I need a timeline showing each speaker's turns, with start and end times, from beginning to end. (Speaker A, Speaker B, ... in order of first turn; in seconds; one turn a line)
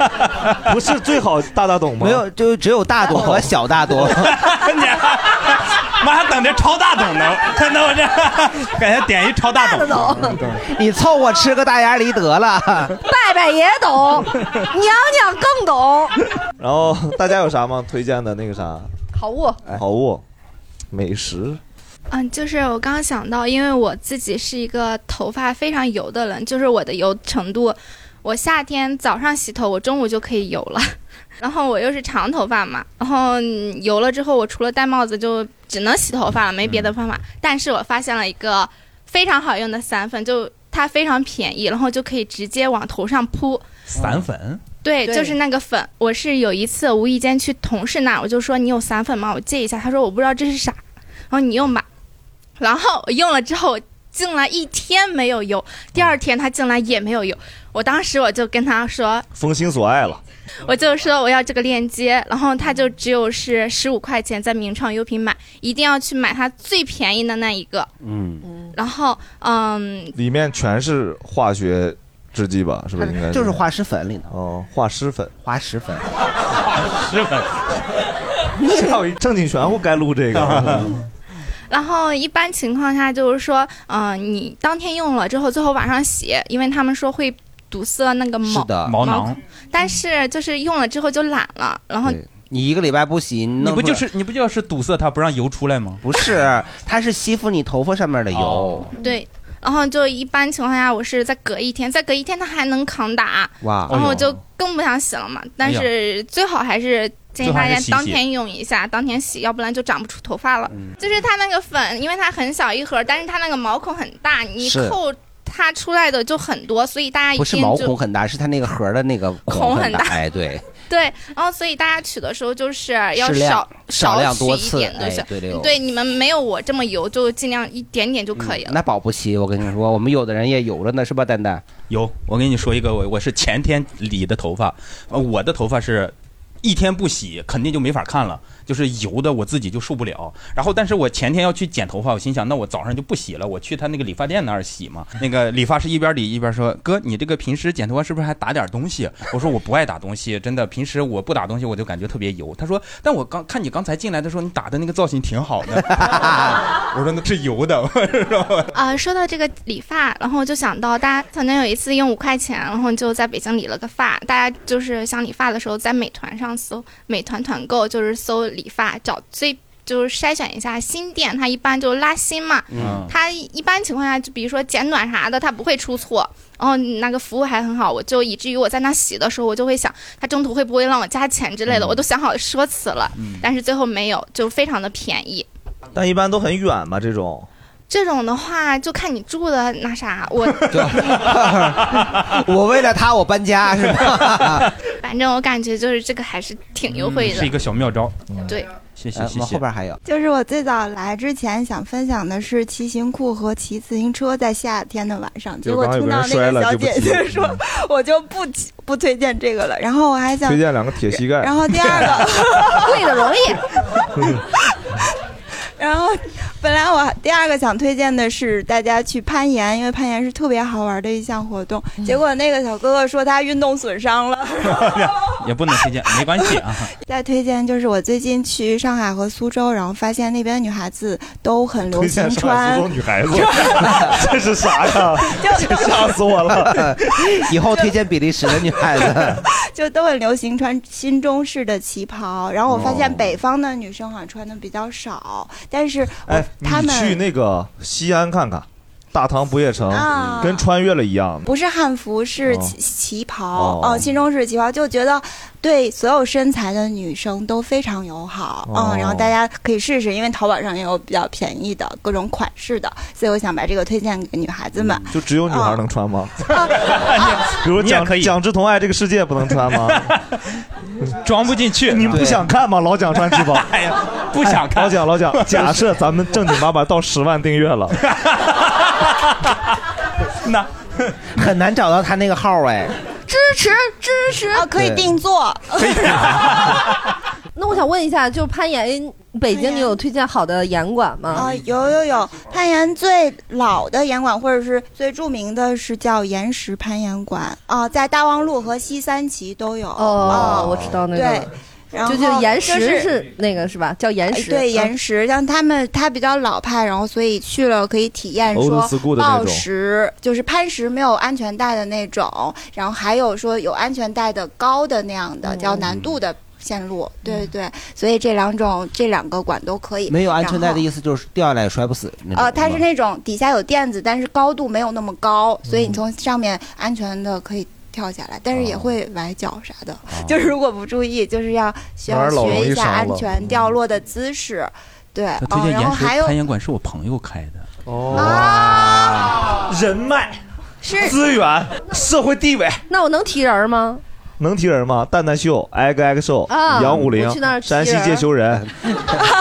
Speaker A: 0.6-2.2
Speaker B: 2.0-4.4
Speaker C: 4.0-10.6
Speaker D: 9.6-10.4
Speaker B: 10.6-12.9
Speaker D: 13.0-16.1
Speaker A: 16.6-18.9
Speaker D: 19.1-19.6
Speaker A: 19.7-20.2
Speaker A: 20.9-21.6
Speaker E: 22.1-43.6
Speaker C: 43.9-44.6
Speaker E: 44.8-50.8
Speaker D: 45.0-45.4
Speaker E: 51.3-51.8
Speaker E: 52.6-59.2
Speaker A: 59.3-60.2
Speaker E: 60.6-67.9
Speaker B: 68.0-68.4
Speaker E: 68.7-70.2
Speaker A: 70.2-73.6
Speaker B: 73.0-74.3
Speaker A: 74.3-75.3
Speaker B: 75.4-76.0
Speaker C: 77.0-77.4
Speaker B: 78.6-78.9
Speaker A: 78.6-81.0
Speaker C: 80.3-80.8
Speaker E: 81.7-92.2
Speaker B: 88.4-89.0
Speaker C: 88.8-89.4
Speaker B: 92.0-94.0
Speaker C: 93.6-96.0
Speaker B: 96.0-98.9
Speaker C: 98.3-98.9
Speaker E: 99.0-117.9
Speaker B: 103.6-104.0
Speaker C: 103.9-104.4
Speaker C: 105.6-105.9
Speaker C: 107.4-108.2
Speaker B: 114.6-115.0
Speaker B: 117.3-120.6
Speaker E: 119.5-120.2
Speaker E: 120.9-128.8
Speaker B: 123.2-125.7
Speaker B: 128.4-131.6
Speaker C: 131.9-158.7
Speaker E: 158.7-185.5
Speaker B: 172.7-173.0
Speaker C: 172.8-173.1
Speaker C: 183.2-183.4
Speaker A: 185.9-187.5
Speaker E: 187.9-190.7
Speaker B: 190.7-194.7
Speaker C: 190.7-191.1
Speaker E: 195.0-197.5
Speaker C: 196.9-198.3
Speaker C: 198.9-199.6
Speaker B: 199.1-200.0
Speaker F: 200.0-213.0
Speaker A: 205.6-207.6
Speaker A: 210.4-212.0
Speaker D: 212.8-213.6
Speaker F: 215.8-224.9
Speaker C: 224.6-226.9
Speaker F: 227.1-234.1
Speaker A: 231.9-236.9
Speaker F: 235.3-236.0
Speaker B: 236.6-239.4
Speaker F: 239.7-247.2
Speaker A: 242.7-243.3
Speaker A: 246.2-251.4
Speaker F: 249.9-250.7
Speaker F: 251.4-265.8
Speaker A: 252.4-252.8
Speaker A: 253.5-254.2
Speaker A: 258.6-259.3
Speaker A: 265.1-270.1
Speaker C: 266.7-268.4
Speaker C: 269.6-270.3
Speaker C: 271.2-272.3
Speaker A: 271.9-273.7
Speaker B: 272.1-272.4
Speaker C: 273.2-275.8
Speaker A: 274.4-278.0
Speaker C: 278.1-279.5
Speaker C: 280.4-281.2
Speaker B: 281.3-282.9
Speaker D: 283.3-284.7
Speaker F: 284.5-286.0
Speaker B: 284.7-285.1
Speaker C: 285.7-286.9
Speaker D: 287.5-291.4
Speaker F: 289.5-290.0
Speaker F: 291.3-303.2
Speaker D: 299.9-301.4
Speaker A: 300.2-301.0
Speaker D: 302.0-304.9
Speaker F: 304.3-320.8
Speaker A: 308.5-309.7
Speaker B: 320.1-322.8
Speaker F: 322.3-336.4
Speaker A: 332.1-333.3
Speaker C: 335.4-337.7
Speaker A: 337.9-340.4
Speaker F: 338.1-339.4
Speaker F: 340.8-341.1
Speaker A: 341.0-342.8
Speaker D: 342.9-344.0
Speaker A: 344.4-348.7
Speaker D: 346.5-348.3
Speaker B: 348.6-349.2